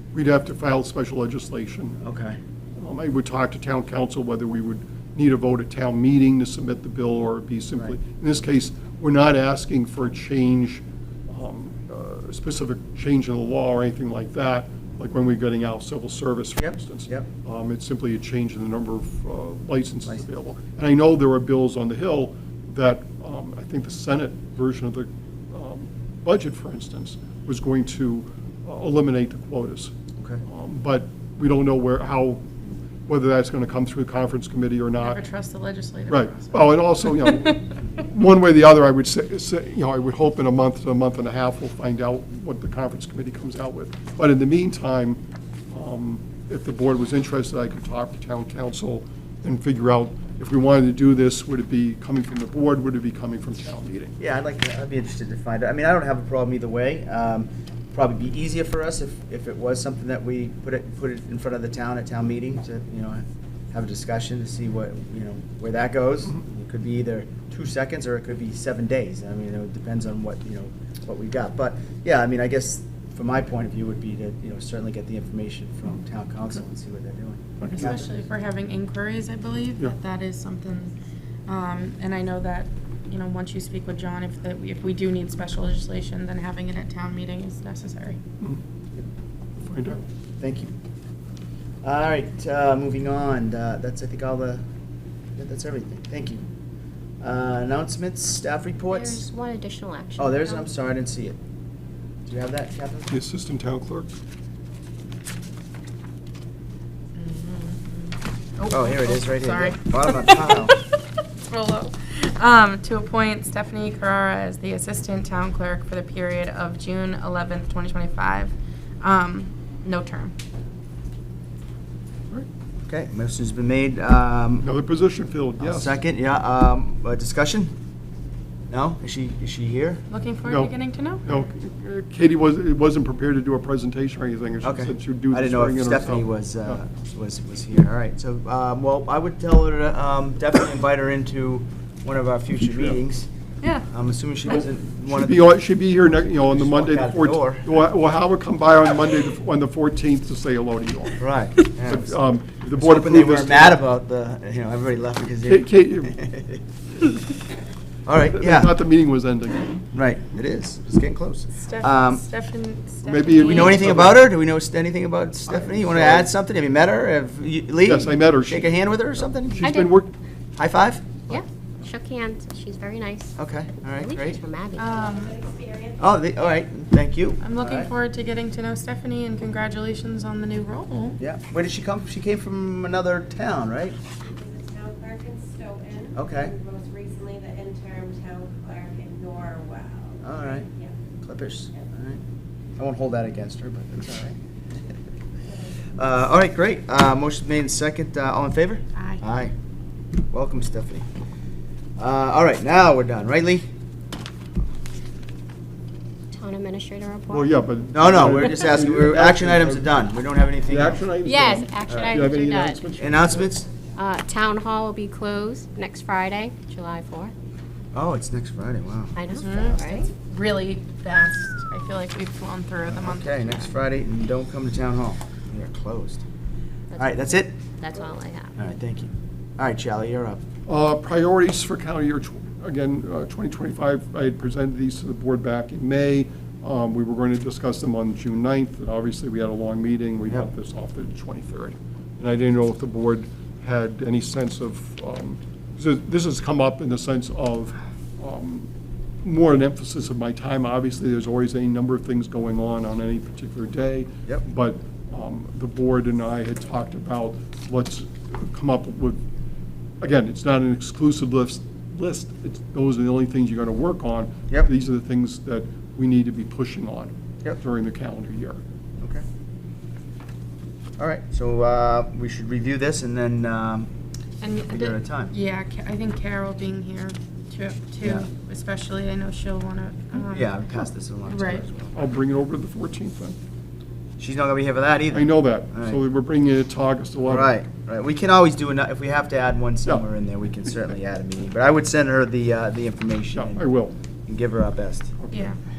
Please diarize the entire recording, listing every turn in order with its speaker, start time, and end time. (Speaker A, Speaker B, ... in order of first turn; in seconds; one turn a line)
Speaker A: 0.1-2.0
Speaker B: 2.0-2.4
Speaker A: 2.8-29.9
Speaker B: 16.6-17.3
Speaker A: 30.4-32.4
Speaker A: 33.1-35.2
Speaker C: 35.0-36.9
Speaker A: 36.1-45.2
Speaker A: 45.7-54.1
Speaker B: 54.2-78.1
Speaker A: 77.6-77.9
Speaker C: 77.8-80.9
Speaker C: 81.5-88.2
Speaker A: 89.6-90.0
Speaker B: 90.4-90.7
Speaker B: 91.8-94.6
Speaker B: 95.4-96.4
Speaker B: 97.2-99.2
Speaker D: 98.9-100.7
Speaker B: 100.2-101.4
Speaker B: 102.3-103.1
Speaker A: 103.1-104.1
Speaker C: 107.2-110.8
Speaker B: 108.7-110.8
Speaker C: 111.4-120.3
Speaker B: 122.9-124.7
Speaker A: 124.6-126.0
Speaker B: 125.6-127.7
Speaker B: 128.7-130.0
Speaker C: 130.1-131.2
Speaker A: 130.4-130.7
Speaker A: 131.2-136.8
Speaker B: 134.6-143.3
Speaker A: 142.6-143.0
Speaker B: 143.9-145.5
Speaker A: 144.5-151.2
Speaker B: 146.2-147.7
Speaker B: 151.2-152.1
Speaker A: 151.8-153.8
Speaker B: 152.8-156.6
Speaker A: 155.5-156.2
Speaker B: 158.1-158.7
Speaker A: 158.3-159.8
Speaker B: 159.9-162.2
Speaker C: 161.6-163.8
Speaker A: 163.1-164.2
Speaker B: 163.3-169.6
Speaker A: 165.5-166.3
Speaker A: 167.8-168.7
Speaker A: 169.3-170.1
Speaker D: 169.6-169.9
Speaker B: 170.6-171.2
Speaker D: 171.3-173.3
Speaker B: 173.4-174.4
Speaker D: 173.9-175.1
Speaker C: 174.8-175.4
Speaker E: 175.3-175.9
Speaker B: 176.0-177.9
Speaker C: 177.4-181.2
Speaker B: 181.2-184.0
Speaker D: 184.4-187.3
Speaker B: 186.1-186.5
Speaker E: 187.3-189.5
Speaker D: 187.9-190.2
Speaker B: 190.2-190.7
Speaker B: 191.2-192.2
Speaker B: 192.8-194.4
Speaker B: 195.9-199.5
Speaker C: 198.9-199.2
Speaker B: 200.3-201.1
Speaker B: 202.0-203.7
Speaker D: 206.3-207.5
Speaker A: 207.3-209.9
Speaker B: 207.9-211.0
Speaker A: 210.7-213.5
Speaker D: 211.2-212.8
Speaker B: 211.9-212.2
Speaker B: 212.9-213.7
Speaker D: 213.9-217.3
Speaker B: 217.9-219.2
Speaker D: 219.2-220.1
Speaker C: 219.3-223.8
Speaker B: 222.9-226.2
Speaker D: 226.9-228.6
Speaker B: 227.0-227.6
Speaker B: 228.5-230.4
Speaker A: 230.7-248.7
Speaker A: 249.2-259.2
Speaker A: 260.0-268.6
Speaker B: 271.0-273.9
Speaker C: 274.4-280.5
Speaker B: 274.7-275.3
Speaker B: 280.2-281.9
Speaker C: 281.3-281.6
Speaker A: 281.9-283.4
Speaker B: 284.2-286.0
Speaker A: 285.1-287.6
Speaker B: 287.2-293.6
Speaker A: 293.4-293.9
Speaker B: 294.3-295.1
Speaker A: 295.2-295.5
Speaker C: 295.3-295.6